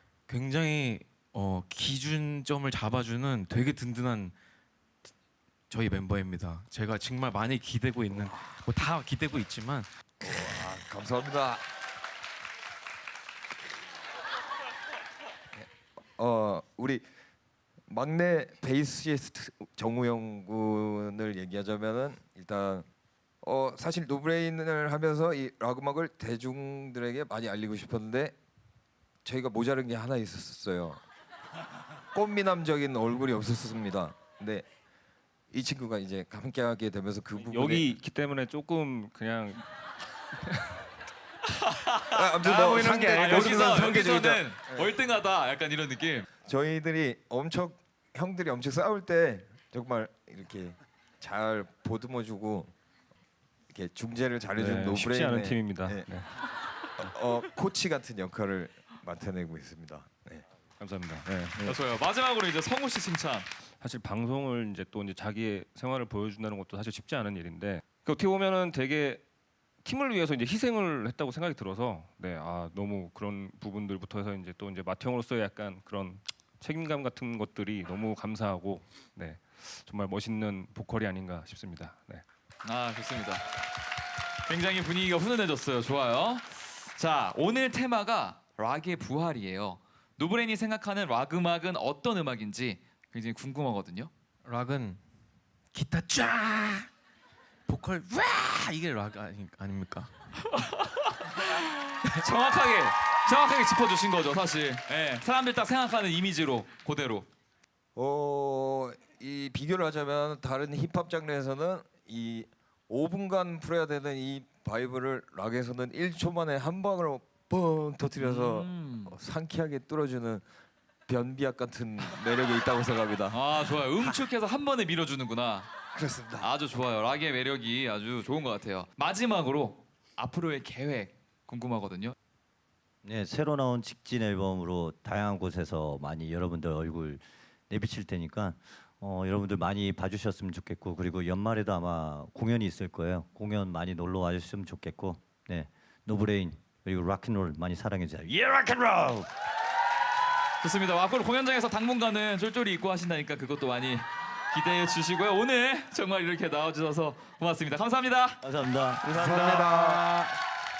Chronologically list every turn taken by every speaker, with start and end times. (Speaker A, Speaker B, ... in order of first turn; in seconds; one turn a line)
Speaker A: 0.3-4.3
Speaker A: 5.7-9.9
Speaker B: 10.2-11.6
Speaker B: 15.6-17.0
Speaker B: 17.9-22.9
Speaker B: 23.4-28.4
Speaker B: 29.2-31.0
Speaker B: 32.1-34.6
Speaker B: 35.5-37.9
Speaker C: 37.4-39.7
Speaker C: 40.5-40.7
Speaker D: 41.5-46.3
Speaker B: 42.1-44.8
Speaker B: 46.5-52.7
Speaker B: 53.7-56.1
Speaker C: 54.5-56.3
Speaker B: 57.0-60.4
Speaker C: 60.8-61.5
Speaker B: 61.2-61.8
Speaker D: 61.6-63.5
Speaker C: 63.8-69.2
Speaker C: 69.8-82.2
Speaker D: 82.6-83.4
Speaker D: 84.5-94.1
Speaker A: 94.4-95.0
Speaker A: 95.7-96.9
Speaker A: 97.7-100.1
Speaker D: 100.5-107.3
Speaker B: 107.9-120.4
Speaker D: 118.2-119.1
Speaker B: 121.1-123.4
Speaker D: 123.3-125.7
Speaker B: 125.9-126.5
Speaker D: 126.4-132.1
Speaker E: 133.0-149.3
Speaker D: 150.6-158.4
Speaker E: 158.4-159.2
Speaker B: 159.1-160.1
Speaker A: 159.1-160.3